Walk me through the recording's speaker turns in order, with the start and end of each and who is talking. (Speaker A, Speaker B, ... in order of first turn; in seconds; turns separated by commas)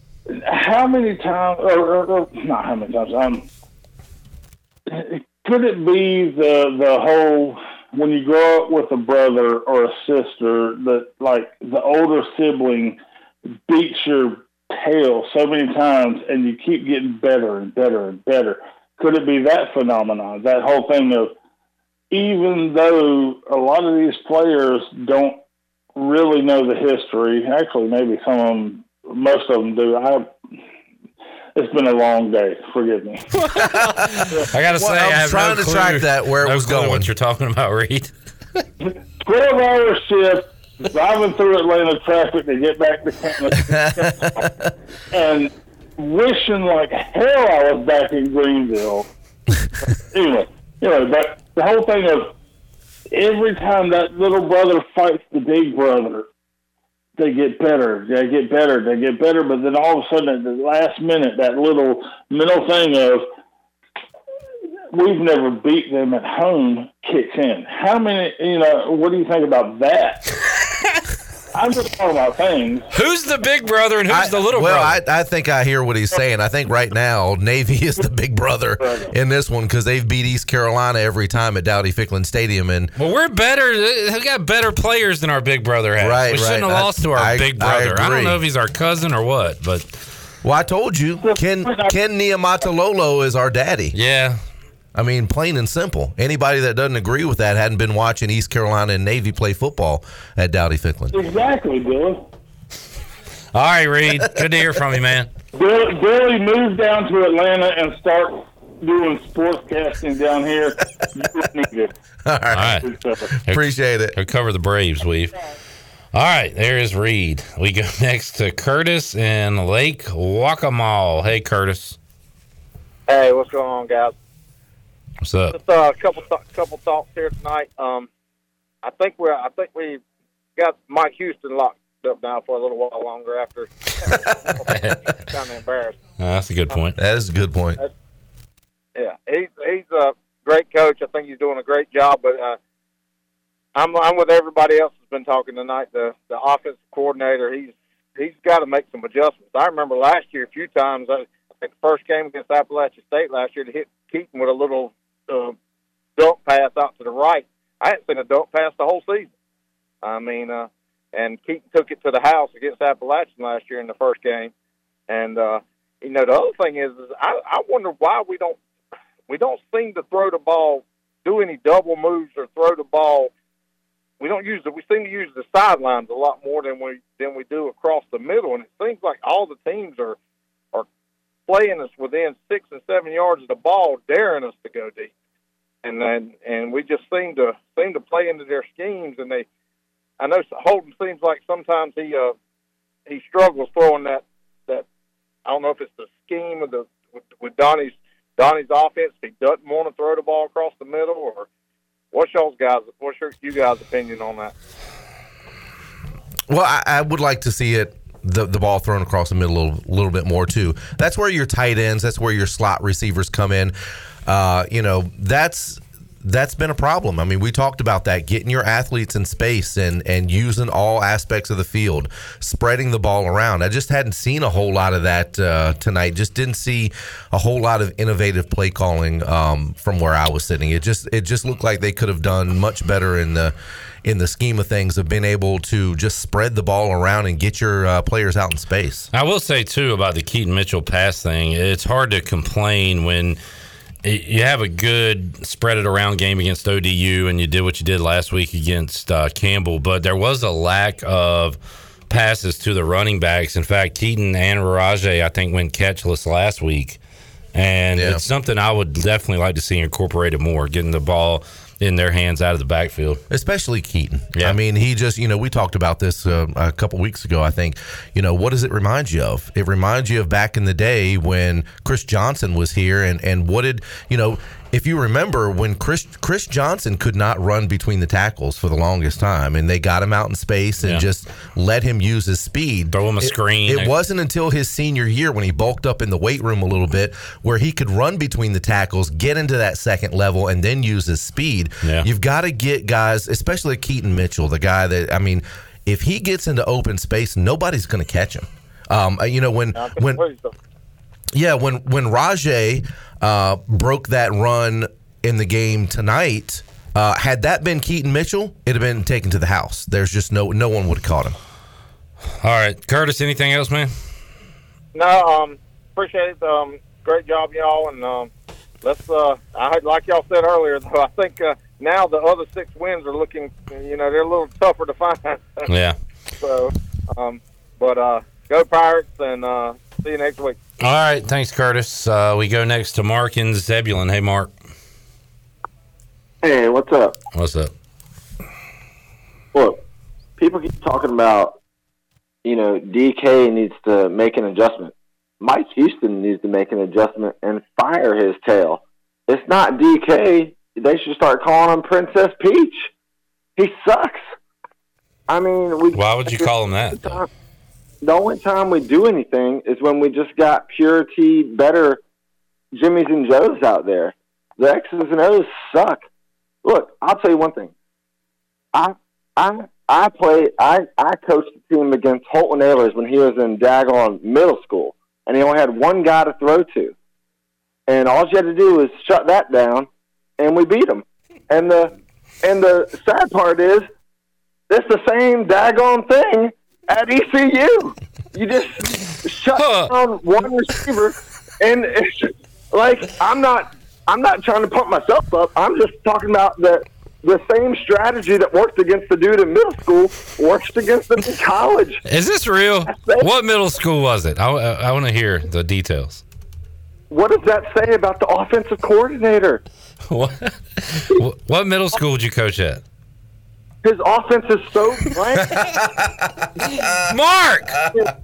Speaker A: 0.3-3.5, Speaker A: 4.9-13.0, Speaker A: 13.7-21.3, Speaker A: 22.1-25.4, Speaker A: 25.9-30.4, Speaker A: 31.6-33.2, Speaker B: 33.5-38.1, Speaker C: 34.7-37.1, Speaker A: 39.2-43.8, Speaker C: 43.6-44.7, Speaker A: 45.1-49.1, Speaker A: 50.1-52.3, Speaker A: 53.1-56.3, Speaker A: 57.2-63.3, Speaker A: 64.9-70.2, Speaker A: 71.5-72.8, Speaker B: 72.9-75.0, Speaker C: 74.1-82.9, Speaker B: 83.0-90.0, Speaker C: 86.0-88.4, Speaker C: 90.4-94.0, Speaker A: 91.2-91.9, Speaker B: 93.9-94.4, Speaker C: 94.9-101.2, Speaker A: 101.1-102.3, Speaker B: 103.5-105.3, Speaker A: 105.5-111.9, Speaker C: 112.2-114.1, Speaker B: 112.5-112.9, Speaker A: 112.9-113.1, Speaker B: 113.5-115.4, Speaker B: 116.1-122.0, Speaker D: 123.1-124.1, Speaker B: 125.2-125.5, Speaker D: 125.5-128.1, Speaker D: 128.8-130.0, Speaker D: 130.6-136.0, Speaker B: 134.7-135.0, Speaker B: 136.2-136.9, Speaker C: 137.0-137.8, Speaker D: 138.9-142.6, Speaker D: 143.7-155.6, Speaker D: 156.2-159.3, Speaker D: 160.0-164.5, Speaker D: 165.1-168.6, Speaker D: 169.3-173.3, Speaker D: 174.2-180.2, Speaker D: 181.5-185.1, Speaker D: 185.8-189.4, Speaker D: 190.2-192.3, Speaker D: 193.1-194.8, Speaker D: 195.4-201.5, Speaker D: 202.1-204.5, Speaker C: 206.5-213.7, Speaker C: 214.2-239.1, Speaker B: 239.1-243.4, Speaker B: 244.0-251.6, Speaker B: 252.1-257.0, Speaker B: 257.5-263.2, Speaker C: 257.9-258.2, Speaker C: 263.3-300.2, Speaker B: 282.9-283.9, Speaker D: 299.7-300.5, Speaker C: 301.3-311.3, Speaker B: 312.4-313.9, Speaker D: 314.9-318.3, Speaker D: 318.8-325.7, Speaker B: 325.7-325.9, Speaker D: 326.4-330.6, Speaker B: 330.8-334.5, Speaker E: 336.4-337.2, Speaker B: 337.3-337.7, Speaker E: 340.4-341.6, Speaker E: 342.4-352.9, Speaker E: 353.6-354.2, Speaker E: 355.3-357.2, Speaker B: 355.9-357.2, Speaker E: 358.0-362.0, Speaker E: 362.7-366.0, Speaker E: 366.6-367.7, Speaker E: 368.7-376.9, Speaker E: 377.9-379.9, Speaker E: 380.4-383.9, Speaker E: 384.7-402.0, Speaker B: 389.5-389.9, Speaker B: 402.1-406.2, Speaker E: 402.9-403.3, Speaker E: 407.1-409.6, Speaker B: 410.1-412.8, Speaker E: 413.8-415.5, Speaker C: 415.5-416.1, Speaker B: 417.1-417.8